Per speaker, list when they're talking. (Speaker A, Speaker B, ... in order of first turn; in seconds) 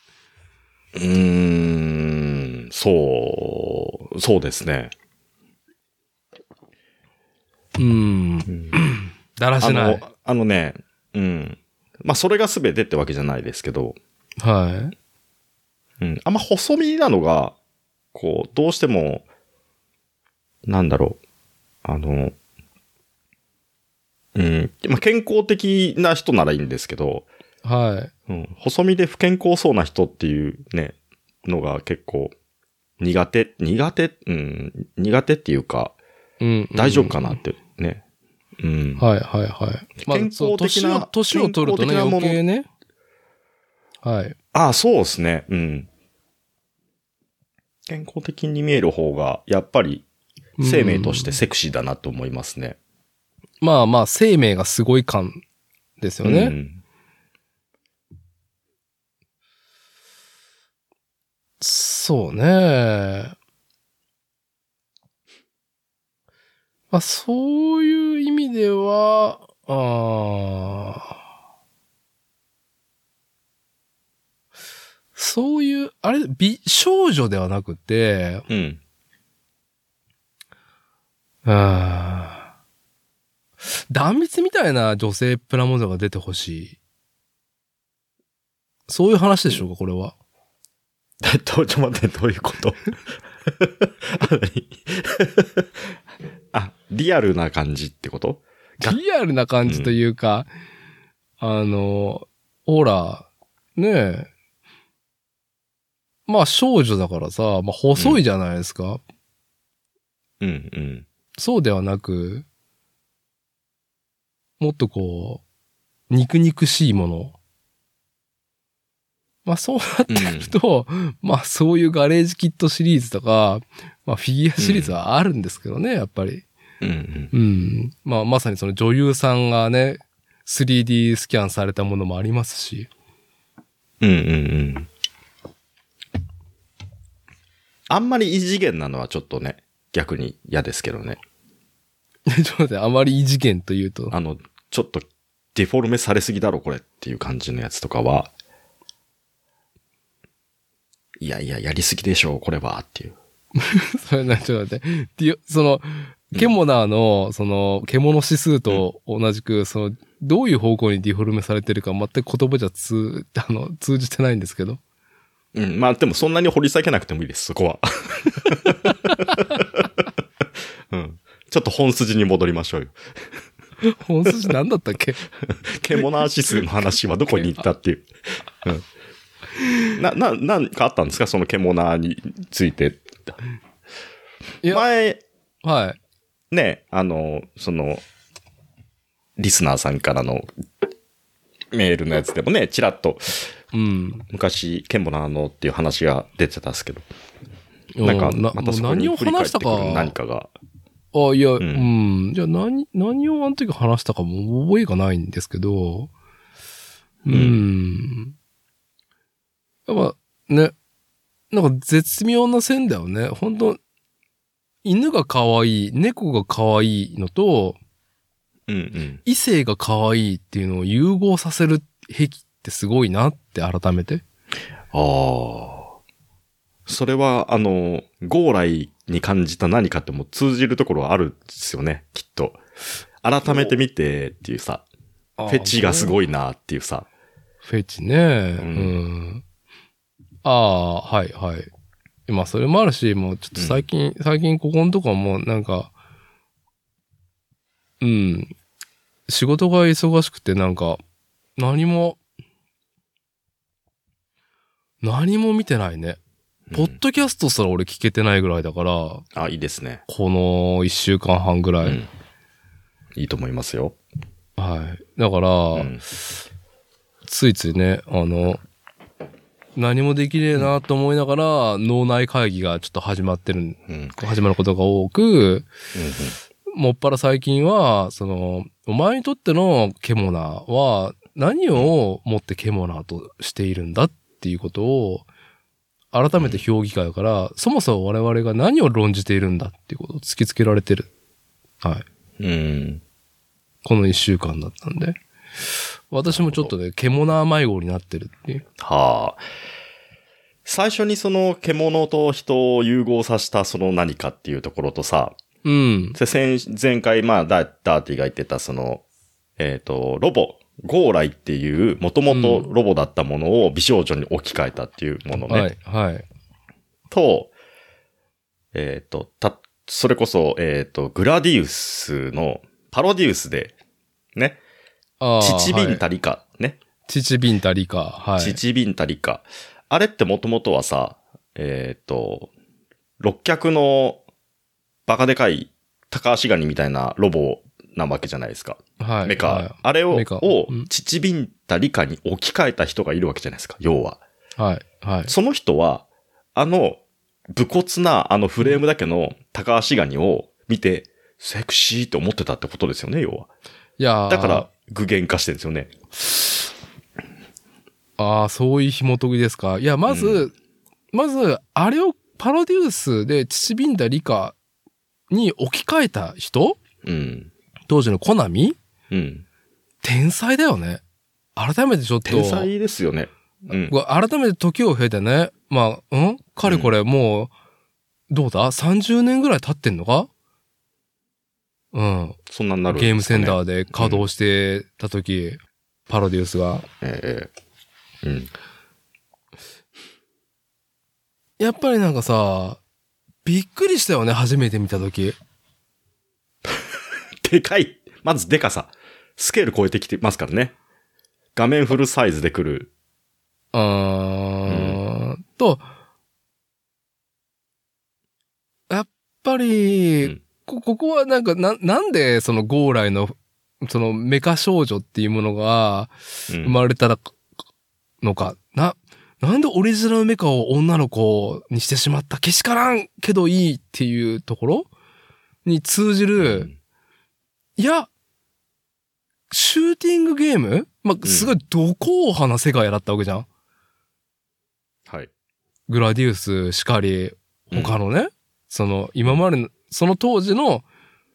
Speaker A: 0.9-4.9, 8.5-8.8, 9.6-14.0, 16.0-17.6, 18.1-19.2, 20.6-21.2, 21.8-22.3, 24.3-27.3, 28.3-32.3, 33.0-35.9, 36.8-38.0, 38.6-39.0, 40.0-42.4, 44.5-45.9, 47.9-50.0, 50.6-52.8, 56.2-56.8, 78.5-78.8, 91.2-92.9, 93.5-95.8, 96.5-99.0, 99.7-99.9, 108.0-108.2, 110.4-111.0, 120.1-120.5, 124.6-124.9, 126.8-127.3, 134.0-134.9, 137.9-141.2, 144.1-148.3, 151.2-153.2, 165.5-169.9, 170.9-172.9, 175.5-178.1, 179.9-183.4, 184.7-185.2, 186.5-188.0, 189.4-190.5, 191.7-193.5, 194.3-197.1, 198.0-200.5, 201.6-201.9, 207.3-207.6, 218.7-219.2, 224.9-225.9, 226.8-232.6, 233.2-234.8, 235.5-237.1, 238.6-238.9, 243.6-243.8, 256.7-257.0, 259.3-260.0, 261.8-262.1, 263.1-264.0, 265.8-266.0, 273.9-274.1, 275.9-276.4, 286.4-286.6, 292.4-293.0, 296.3-296.7, 298.8-299.4, 300.6-305.4, 306.1-309.0, 309.6-315.7, 317.1-317.5, 318.7-323.7, 325.4-326.8, 328.4-332.5, 333.2-334.2, 335.1-344.2, 345.3-347.0, 347.5-353.5, 354.3-356.1, 360.1-360.5, 367.0-367.5, 369.1-369.4, 372.2-373.9, 376.6-376.9, 382.5-384.2, 387.0-387.5, 388.2-388.5, 396.6-400.7, 401.5-402.9, 404.7-405.0, 416.5-416.8, 426.4-426.7, 431.2-431.5, 437.7-438.0
Speaker B: 7.8-10.0, 14.4-14.9, 27.6-28.1, 36.4-37.2, 39.0-42.7, 44.0-44.4, 50.6-51.4, 53.6-55.4, 56.0-56.5, 61.6-63.3, 66.9-71.1, 75.2-78.5, 81.4-82.5, 83.7-86.8, 88.9-90.1, 98.8-100.5, 101.4-104.3, 106.3-109.0, 111.4-112.4, 114.6-115.4, 116.1-117.3, 119.4-126.5, 127.3-132.9, 142.3-144.1, 153.6-164.8, 173.8-175.2, 179.6-179.9, 185.6-186.0, 193.7-194.2, 197.9-200.1, 201.1-206.1, 207.2-208.3, 209.9-210.7, 211.5-213.8, 214.8-217.8, 219.2-224.2, 235.4-236.2, 237.6-239.4, 240.4-241.7, 242.3-245.9, 248.0-248.5, 249.3-251.0, 251.6-252.2, 255.0-256.2, 256.7-259.2, 260.1-262.0, 264.6-265.9, 267.2-268.6, 269.8-275.7, 276.7-285.2, 286.1-291.1, 293.8-295.2, 296.1-298.6, 305.6-306.2, 312.3-312.7, 315.4-316.2, 325.2-326.0, 327.1-328.6, 339.0-340.9, 344.6-345.3, 354.0-354.7, 358.2-360.5, 361.1-364.6, 365.3-366.8, 367.9-368.8, 370.0-371.0, 371.6-372.7, 373.7-377.5, 378.3-380.3, 381.9-382.4, 382.9-386.9, 391.6-392.8, 393.4-395.4, 403.7-405.9, 408.9-417.3, 418.2-424.9, 425.6-426.7, 427.8-428.1, 429.5-433.5, 435.9-440.8